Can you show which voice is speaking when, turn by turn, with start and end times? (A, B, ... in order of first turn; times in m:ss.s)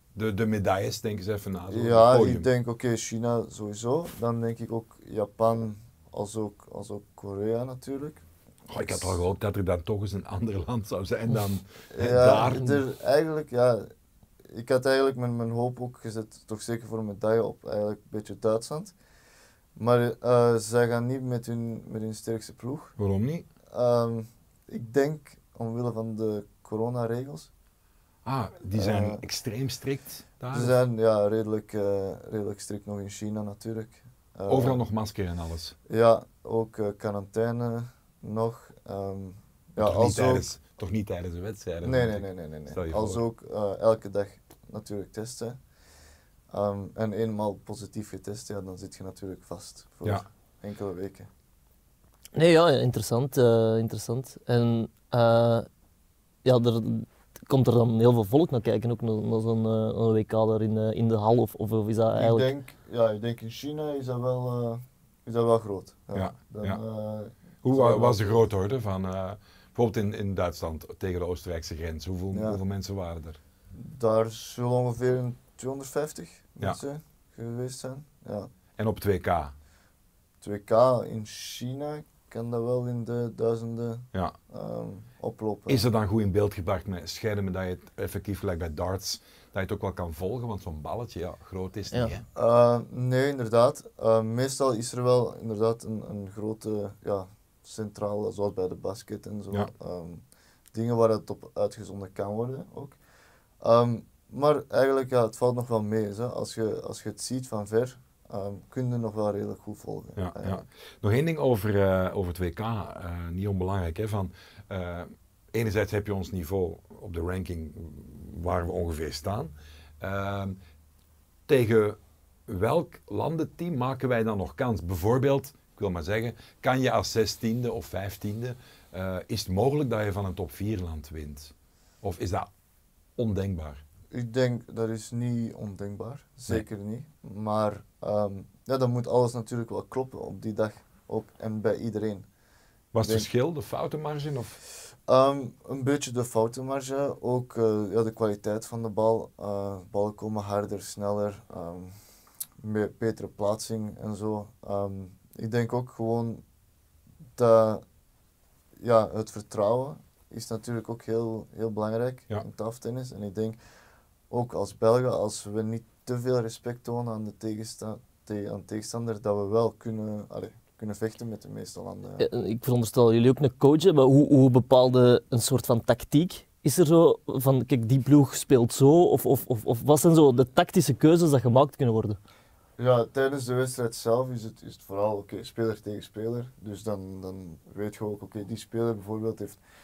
0:00.2-0:02.5 A
0:01.7-0:08.2 B
0:08.7-0:12.8 A
0:11.9-0:13.9 B
0:14.5-0:18.9 B
0:19.8-0:23.0 B
0:23.0-0:23.5 A
0:23.7-0:27.5 B
0:28.2-0:30.8 A
0:28.8-0:29.2 B
0:30.5-0:34.8 B
0:34.5-0:35.8 A
0:35.9-0:40.5 B
0:39.8-0:43.2 A
0:41.8-0:45.6 B
0:46.5-0:51.3 B
0:52.4-0:55.7 C
0:56.4-1:02.5 C
1:02.1-1:08.4 B
1:06.1-1:06.8 A
1:07.6-1:13.4 A
1:12.3-1:12.6 B
1:13.7-1:18.5 B
1:18.8-1:19.5 A
1:20.4-1:25.9 B
1:25.7-1:32.2 A
1:32.4-1:43.0 B
1:43.6-1:50.6 B
1:50.2-2:00.6 A
2:01.5-2:12.5 A
2:13.2-2:13.8 A
2:14.1-2:22.3 B
2:22.9-2:24.6 A
2:23.0-2:23.3 B
2:25.1-2:31.9 B
2:32.6-2:36.4 B
2:37.4-2:37.8 B
2:38.8-2:43.6 B
2:44.3-2:52.3 B
2:52.2-3:02.2 C
3:02.8-3:09.6 B